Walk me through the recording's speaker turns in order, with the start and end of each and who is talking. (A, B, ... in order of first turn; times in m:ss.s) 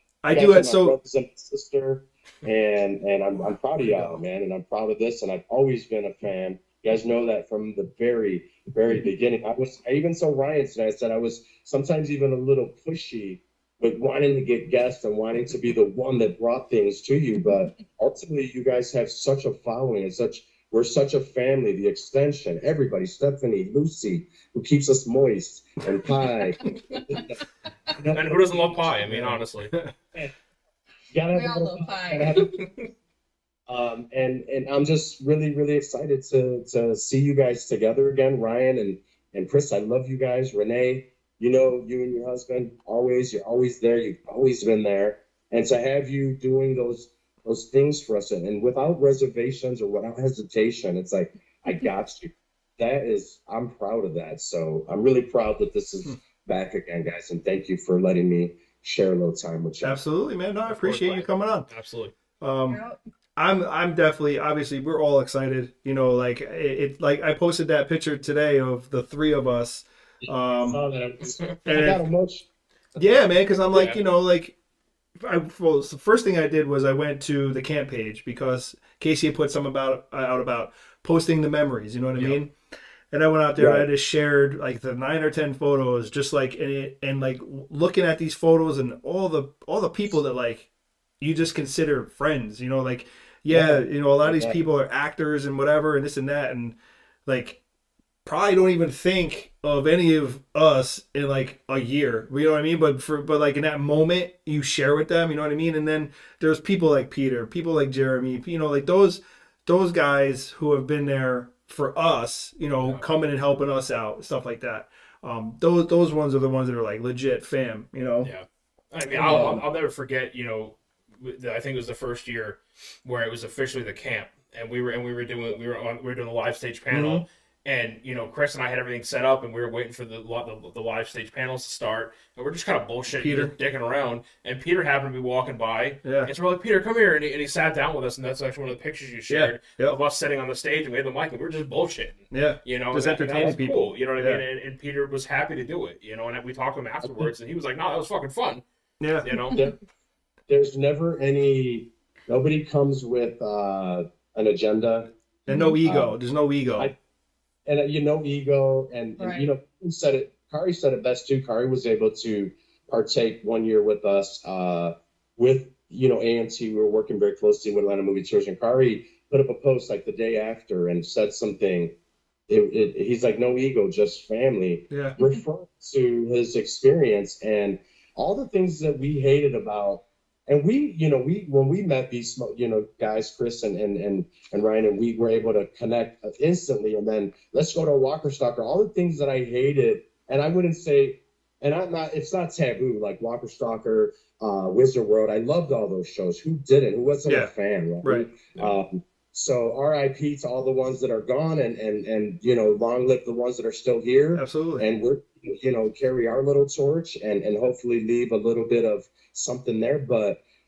0:00.2-0:01.0 A
0:00.3-0:27.4 B
0:03.8-0:04.2 A
0:27.9-0:29.1 B
0:28.2-0:29.7 C
0:29.1-0:29.9 A
0:31.1-0:32.6 B
0:31.3-0:32.5 D
0:32.6-0:32.8 C
0:33.7-1:00.0 B
0:59.8-1:01.7 A
1:00.7-1:02.1 C
1:02.4-1:02.8 A
1:02.7-1:03.0 D
1:03.4-1:10.8 A
1:10.2-1:12.5 B
1:11.7-1:12.0 A
1:13.0-1:14.6 A
1:13.7-1:14.0 C
1:15.2-1:22.5 A
1:23.1-1:37.6 A
1:23.6-1:23.9 B
1:33.5-1:34.6 B
1:38.2-1:58.3 A
1:58.2-2:28.6 C
1:59.1-1:59.6 A
2:06.9-2:07.2 A
2:13.2-2:13.5 A
2:16.0-2:16.3 A
2:19.3-2:20.0 A
2:22.3-2:24.4 A
2:29.0-2:29.3 A
2:29.2-2:29.6 C
2:30.5-2:35.1 B
2:35.5-2:36.9 A
2:35.5-2:35.8 D
2:35.8-2:36.2 B
2:37.7-2:52.0 B
2:39.2-2:39.5 D
2:52.5-3:30.4 B
2:54.9-2:55.2 A
3:17.3-3:17.5 A
3:18.0-3:18.7 A
3:24.3-3:24.9 A